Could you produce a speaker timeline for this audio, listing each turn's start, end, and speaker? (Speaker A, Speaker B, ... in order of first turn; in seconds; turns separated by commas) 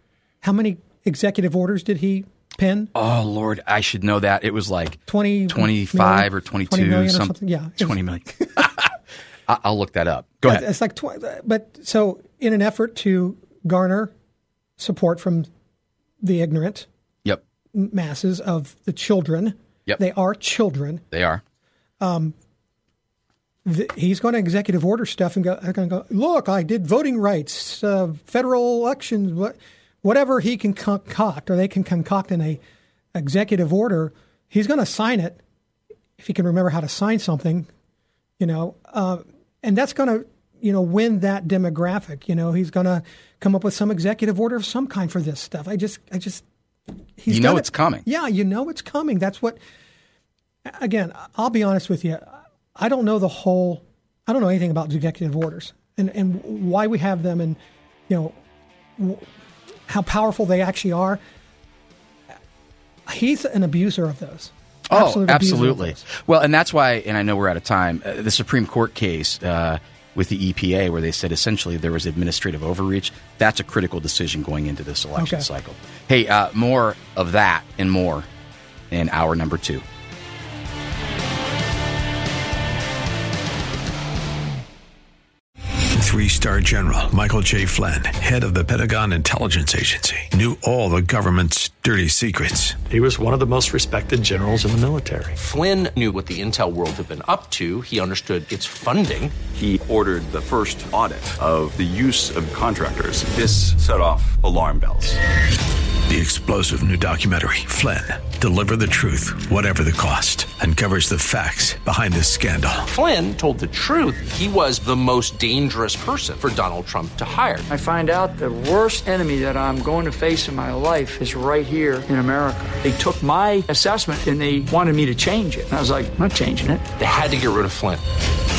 Speaker A: 0.4-2.9, Speaker B: 2.9-8.9, Speaker A: 5.1-8.6, Speaker B: 9.5-10.7, Speaker A: 10.4-14.1, Speaker A: 14.8-15.5, Speaker A: 16.2-16.9, Speaker A: 17.7-21.0, Speaker B: 21.1-21.4, Speaker A: 22.0-22.3, Speaker A: 23.6-32.6, Speaker A: 33.1-35.4, Speaker A: 36.2-37.7, Speaker A: 38.4-46.4, Speaker A: 47.2-49.6, Speaker B: 47.3-48.0, Speaker A: 50.7-57.6, Speaker A: 58.1-58.4, Speaker A: 59.0-59.3, Speaker A: 59.9-61.2, Speaker A: 63.1-66.0, Speaker B: 64.9-78.3, Speaker A: 75.2-75.5, Speaker B: 78.9-79.8, Speaker C: 86.0-92.8, Speaker D: 92.9-95.4, Speaker E: 95.4-99.3, Speaker F: 99.5-105.2, Speaker C: 106.1-112.9, Speaker E: 112.9-117.7, Speaker G: 117.7-126.8, Speaker E: 127.0-128.0